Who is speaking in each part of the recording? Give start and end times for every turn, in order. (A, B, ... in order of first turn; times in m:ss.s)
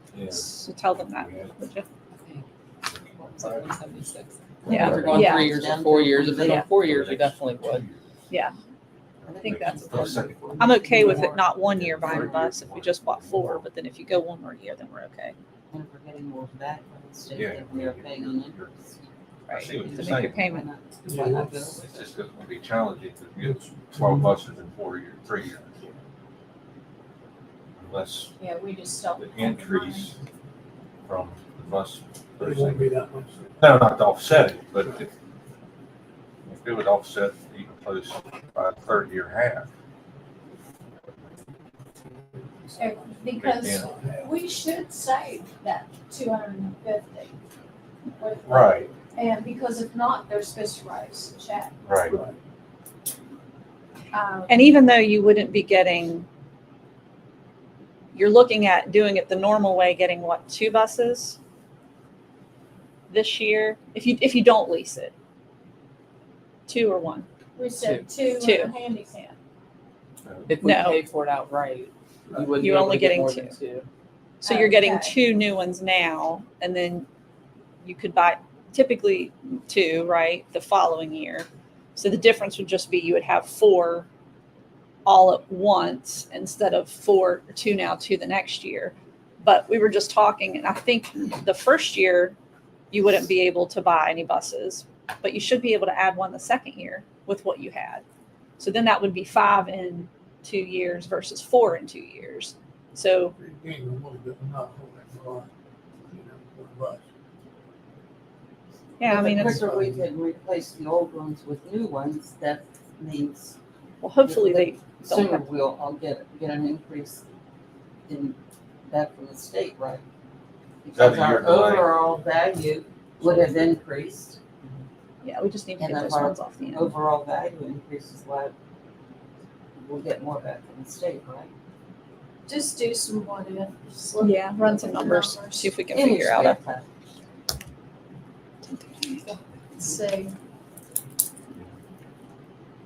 0:00.1-0:01.5 A
0:00.3-0:01.9 B
0:02.8-0:03.8 A
0:03.2-0:07.8 C
0:04.6-0:05.4 A
0:04.7-0:05.6 B
0:04.7-0:06.7 D
0:06.5-0:08.0 A
0:08.3-0:08.5 B
0:09.2-0:13.7 A
0:09.3-0:11.4 D
0:09.4-0:15.4 B
0:11.9-0:12.3 D
0:15.7-0:18.9 D
0:17.3-0:18.7 A
0:19.5-0:20.7 B
0:19.5-0:20.4 A
0:19.6-0:22.0 D
0:21.0-0:21.7 E
0:21.3-0:25.7 A
0:23.4-0:24.4 E
0:27.8-0:28.3 A
0:28.4-0:30.1 F
0:29.2-0:30.1 A
0:31.0-0:32.9 A
0:32.4-0:33.8 E
0:33.6-0:35.1 A
0:36.4-0:39.7 A
0:42.6-0:44.3 E
0:42.8-0:47.4 F
0:43.4-0:43.9 A
0:48.2-0:51.9 F
0:48.4-0:48.9 A
0:51.8-0:52.2 A
0:52.1-0:52.4 E
0:54.1-0:54.7 F
0:54.5-0:56.3 B
0:58.1-1:01.4 B
1:03.1-1:05.1 B
1:06.7-1:07.3 B
1:07.6-1:09.4 F
1:07.8-1:08.0 C
1:08.4-1:08.7 B
1:10.2-1:10.5 A
1:10.5-1:13.9 C
1:10.6-1:11.0 B
1:12.6-1:13.5 B
1:14.4-1:17.1 B
1:14.4-1:15.1 F
1:17.8-1:24.1 B
1:25.0-1:32.4 B
1:32.9-1:38.0 B
1:38.6-1:43.3 B
1:43.4-1:45.5 E
1:46.1-1:47.0 E
1:49.0-1:49.7 B
1:49.0-1:53.6 D
1:54.0-1:55.4 B
1:54.2-1:57.2 D
1:58.1-2:00.0 D
2:00.8-2:04.4 D
2:00.9-2:02.0 A
2:03.2-2:03.8 A
2:05.2-2:06.9 B
2:05.8-2:08.5 D
2:09.8-2:11.5 D
2:12.5-2:15.8 F
2:14.2-2:16.6 B
2:15.9-2:16.9 D
2:18.6-2:19.2 B
2:19.8-2:20.3 F